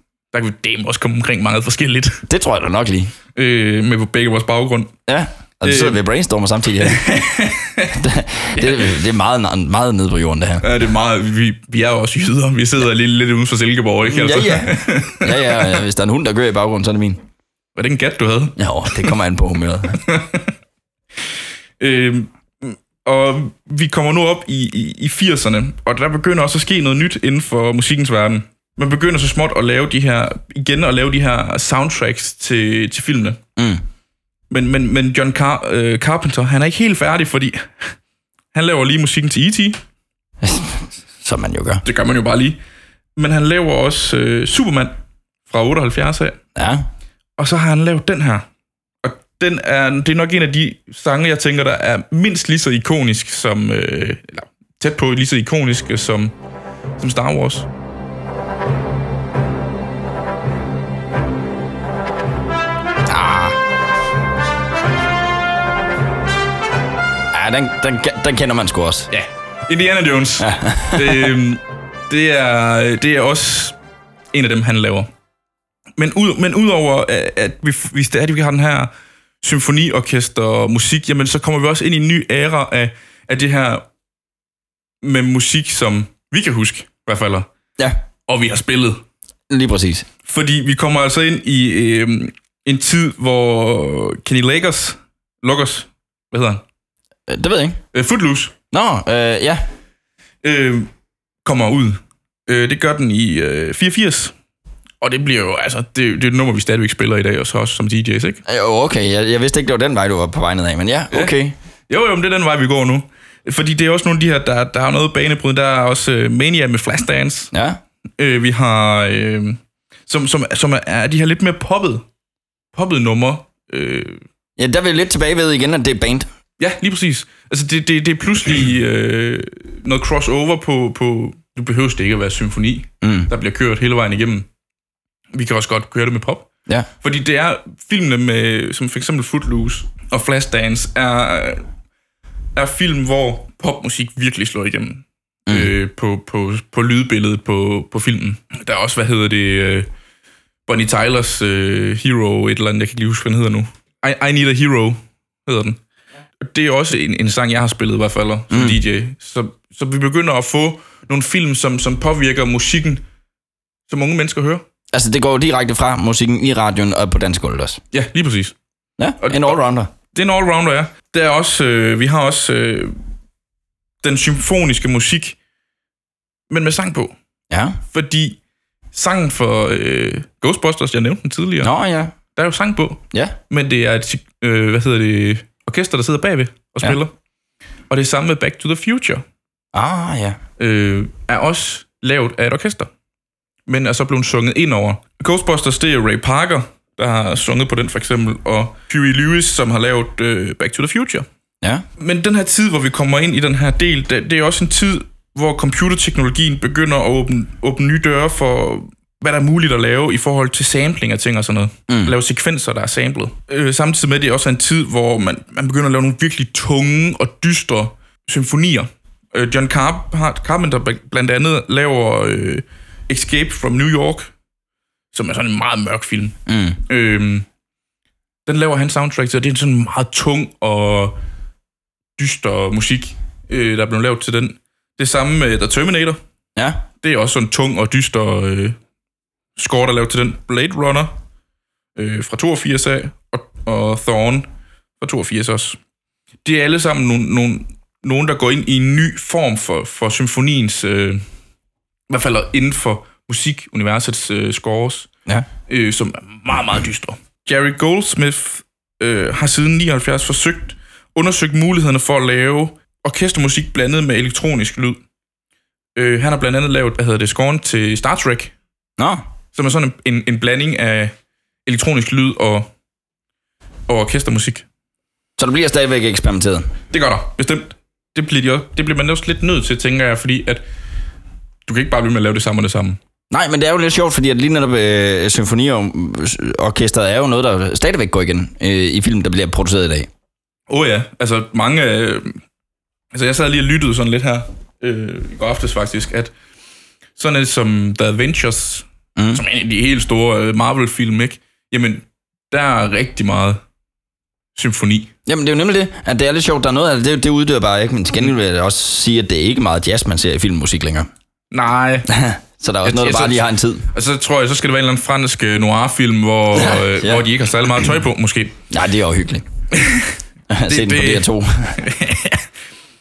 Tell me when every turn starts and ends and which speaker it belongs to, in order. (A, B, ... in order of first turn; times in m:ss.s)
0:00.3-0:02.2 A
0:02.3-0:03.1 B
0:03.3-0:04.9 A
0:05.1-0:07.2 B
0:05.6-0:06.0 A
0:06.8-0:08.0 A
0:07.9-0:10.7 B
0:08.6-0:08.9 A
0:10.6-0:15.8 A
0:14.0-0:17.2 B
0:17.8-0:19.2 A
0:18.6-0:20.0 B
0:19.9-0:20.5 A
0:21.8-0:33.4 A
0:33.6-0:33.8 B
0:34.5-0:38.0 A
0:38.5-0:39.8 A
0:40.4-0:41.8 B
0:41.8-0:42.6 A
0:43.2-0:44.9 A
0:45.5-0:46.4 A
0:46.6-0:46.8 B
0:47.4-0:48.5 A
0:49.0-0:56.3 A
0:57.0-0:57.7 A
1:03.0-1:03.6 B
1:07.3-1:09.1 B
1:09.1-1:13.8 A
1:10.4-1:11.3 B
1:14.3-1:15.1 A
1:16.0-1:23.9 A
1:25.0-1:27.5 A
1:28.3-1:29.0 A
1:29.5-1:30.1 B
1:30.2-1:36.6 A
1:37.3-1:37.8 B
1:37.9-1:38.5 A
1:38.7-1:39.6 B
1:40.4-1:40.9 A
1:41.4-1:44.3 A
1:45.0-1:48.4 A
1:48.4-1:51.5 B
1:51.1-1:51.4 A
1:51.9-1:57.5 A
1:57.5-1:57.8 B
1:58.2-2:02.0 A
2:02.7-2:04.2 A
2:04.6-2:06.3 B
2:06.6-2:14.5 A
2:13.0-2:13.3 B
2:15.3-2:16.5 A
2:17.0-2:21.6 A
2:22.5-2:29.9 A
2:30.6-2:35.8 A
2:36.4-2:43.0 A
2:38.5-2:38.8 B
2:43.9-2:44.6 A
2:44.9-2:47.8 B
2:47.9-2:48.5 A
2:49.0-2:49.9 B
2:49.2-2:53.0 A
2:54.0-2:55.4 A
2:56.5-2:57.1 A
2:57.5-2:57.8 B
2:57.9-2:58.4 A
2:58.9-3:01.7 A
3:01.6-3:02.1 B
3:02.3-3:07.1 A
3:07.9-3:09.2 A
3:09.7-3:10.4 B
3:10.6-3:12.9 A
3:13.7-3:21.3 A
3:22.0-3:44.3 A
3:31.9-3:32.1 B
3:45.1-3:47.4 A
3:46.5-3:46.8 B
3:48.4-3:51.2 A
3:52.2-3:56.2 A
3:56.6-3:56.8 B
3:57.0-3:58.8 A
3:59.6-4:01.2 A
4:02.0-4:05.8 A
4:06.4-4:11.2 A
4:12.1-4:15.1 A
4:15.7-4:25.0 A
4:26.0-4:28.5 A
4:29.0-4:29.2 B
4:29.5-4:31.1 A
4:31.6-4:32.7 A
4:33.9-4:34.6 A
4:35.4-4:36.7 B
4:36.9-4:40.6 A
4:41.6-4:43.0 A
4:43.3-4:50.1 B
4:50.7-4:52.4 A
4:53.1-4:56.3 A
4:57.2-5:03.6 A
4:59.2-4:59.4 B
5:04.6-5:05.1 A
5:05.2-5:11.1 B
5:11.5-5:12.1 A
5:12.1-5:13.8 B
5:12.8-5:18.6 A
5:16.5-5:17.2 B
5:18.7-5:19.4 B
5:19.7-5:22.4 A
5:20.5-5:21.8 B